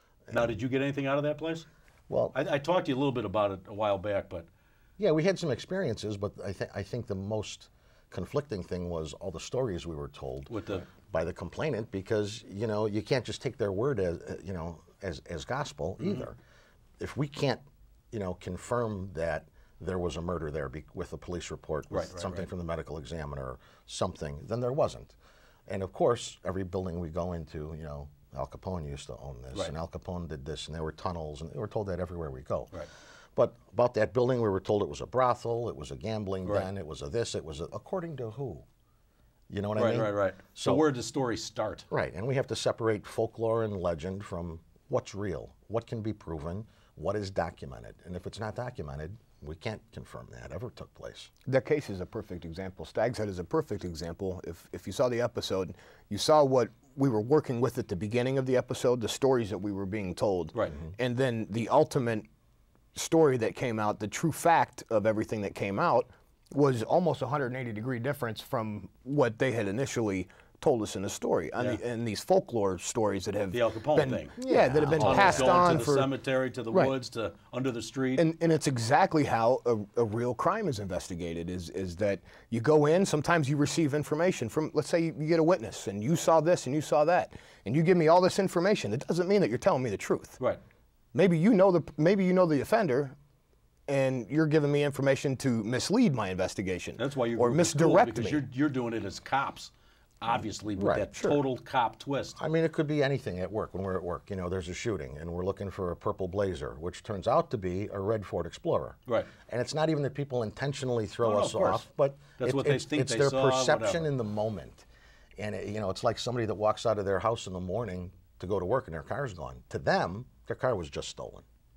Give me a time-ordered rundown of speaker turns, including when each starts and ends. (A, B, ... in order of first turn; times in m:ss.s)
0:00.3-0:00.6 A
0:00.3-0:01.6 B
0:02.1-0:02.4 A
0:02.3-0:04.5 B
0:05.0-0:16.4 A
0:10.5-0:10.9 B
0:16.0-0:16.3 B
0:17.0-0:25.2 A
0:21.9-0:22.5 B
0:25.7-0:32.7 A
0:33.3-0:38.6 A
0:39.5-0:40.9 A
0:39.8-0:41.9 B
0:41.9-0:51.3 A
0:51.4-1:02.3 C
1:00.5-1:00.8 B
1:02.9-1:16.1 C
1:11.6-1:11.8 B
1:13.5-1:18.2 B
1:14.4-1:15.8 A
1:18.2-1:30.4 C
1:31.1-1:33.2 C
1:33.9-1:38.4 C
1:37.0-1:42.4 B
1:40.8-1:41.4 A
1:42.4-1:54.8 A
1:49.1-1:49.3 B
1:51.2-1:51.9 B
1:52.4-1:54.1 B
1:55.4-2:01.4 A